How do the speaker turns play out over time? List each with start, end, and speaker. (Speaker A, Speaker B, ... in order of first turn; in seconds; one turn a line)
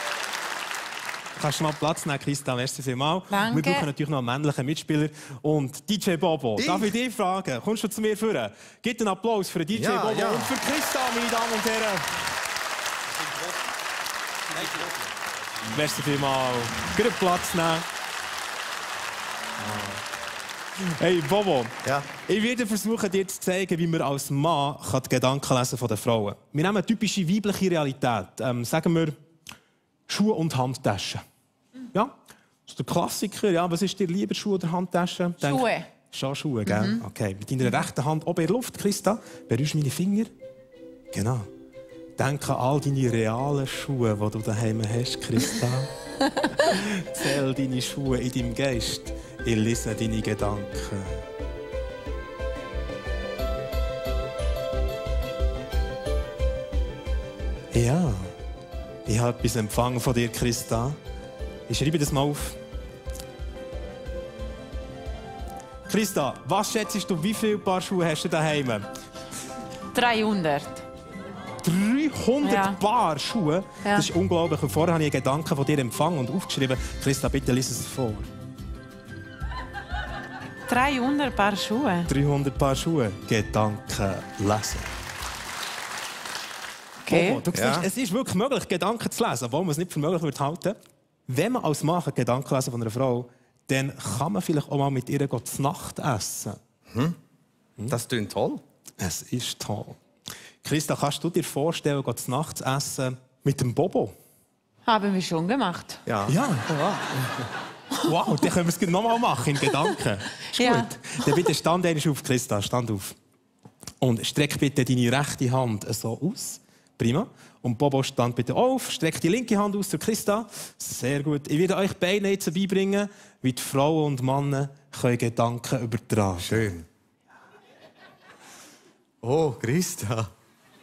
Speaker A: 1.4-12.1
Speaker B: 3.3-3.9
Speaker C: 6.6-6.9
Speaker C: 9.7-10.5
Speaker A: 15.7-17.9
Speaker A: 19.6-20.0
Speaker A: 20.8-29.1
Speaker A: 30.1-31.2
Speaker A: 32.7-40.3
Speaker B: 35.4-35.9
Speaker B: 36.7-37.0
Speaker A: 41.1-41.5
Speaker A: 42.2-45.9
Speaker A: 46.5-51.2
Speaker A: 57.7-58.3
Speaker A: 59.1-61.0
Speaker A: 61.7-62.6
Speaker A: 65.9-68.8
Speaker B: 69.9-70.8
Speaker A: 71.6-78.3
Speaker B: 72.4-72.8
Speaker B: 80.7-82.1
Speaker A: 82.1-84.9
Speaker B: 87.0-87.4
Speaker A: 87.1-90.8
Speaker C: 87.5-87.8
Speaker A: 91.3-96.6
Speaker C: 97.9-98.6
Speaker A: 99.0-100.0
Speaker A: 100.6-104.1
Speaker B: 104.8-106.0
Speaker C: 106.0-107.4
Speaker A: 106.2-106.7
Speaker A: 108.0-113.2
Speaker B: 110.5-111.2
Speaker A: 114.0-126.7
Speaker C: 126.4-126.8
Speaker C: 129.2-130.3